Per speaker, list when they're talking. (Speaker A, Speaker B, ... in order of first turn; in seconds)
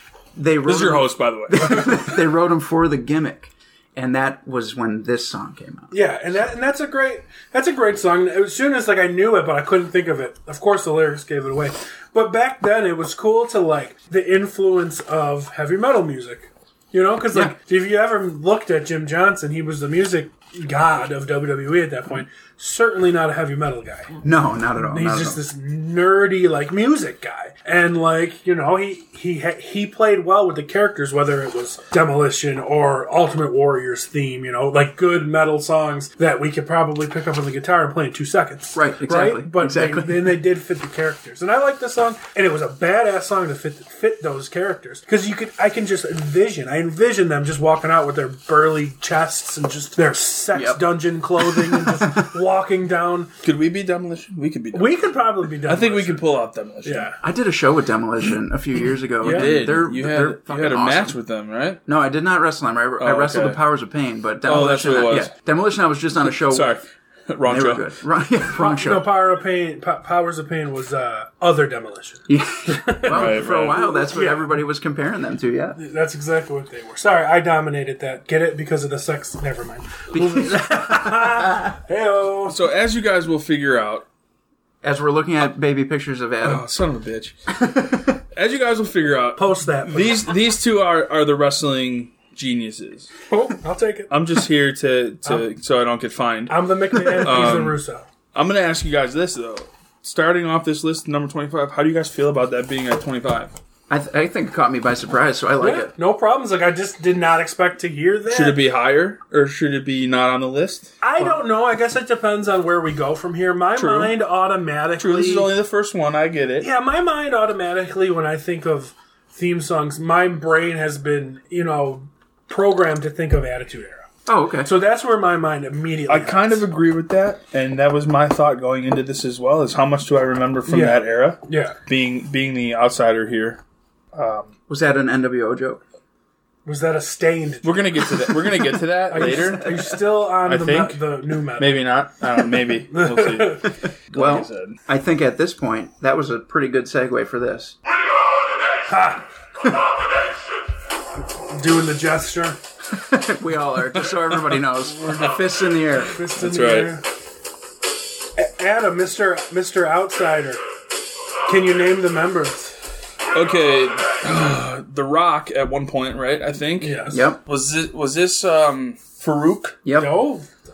Speaker A: 0.3-6.0, 24.2-25.4, 38.7-40.4, 50.5-52.4, 57.2-61.2, 61.9-66.8, 67.4-69.1, 72.3-75.8, 80.1-81.7, 84.8-86.6, 87.6-88.0, 103.9-105.9, 111.2-111.4, 124.3-124.7, 134.7-135.8, 144.1-147.8, 152.9-156.2, 167.1-167.4, 169.8-170.3
Speaker B: 0.7-2.2, 53.4-57.1, 59.2-61.8, 63.0-63.6, 64.4-65.3, 66.5-67.9, 73.1-73.9, 82.5-84.1, 86.4-87.6, 88.3-93.1, 94.1-97.8, 98.3-103.5, 108.3-110.9, 113.8-114.2, 115.0-116.7, 126.1-133.6, 134.1-134.5, 137.6-144.8, 155.1-155.4, 156.3-157.0, 163.3-169.8
Speaker C: 5.9-24.2, 24.8-53.3, 54.7-57.2, 59.2-59.7, 68.5-74.6, 75.8-82.6, 89.4-90.3, 93.3-94.1, 96.5-98.0, 105.6-108.6, 111.0-115.5, 116.6-124.1, 124.6-126.6, 130.7-131.8, 136.7-138.2, 139.1-141.8, 142.9-143.7, 148.9-149.3, 151.5-152.6, 156.1-157.1, 158.4-160.6, 161.5-162.8, 166.8-167.2, 169.9-170.5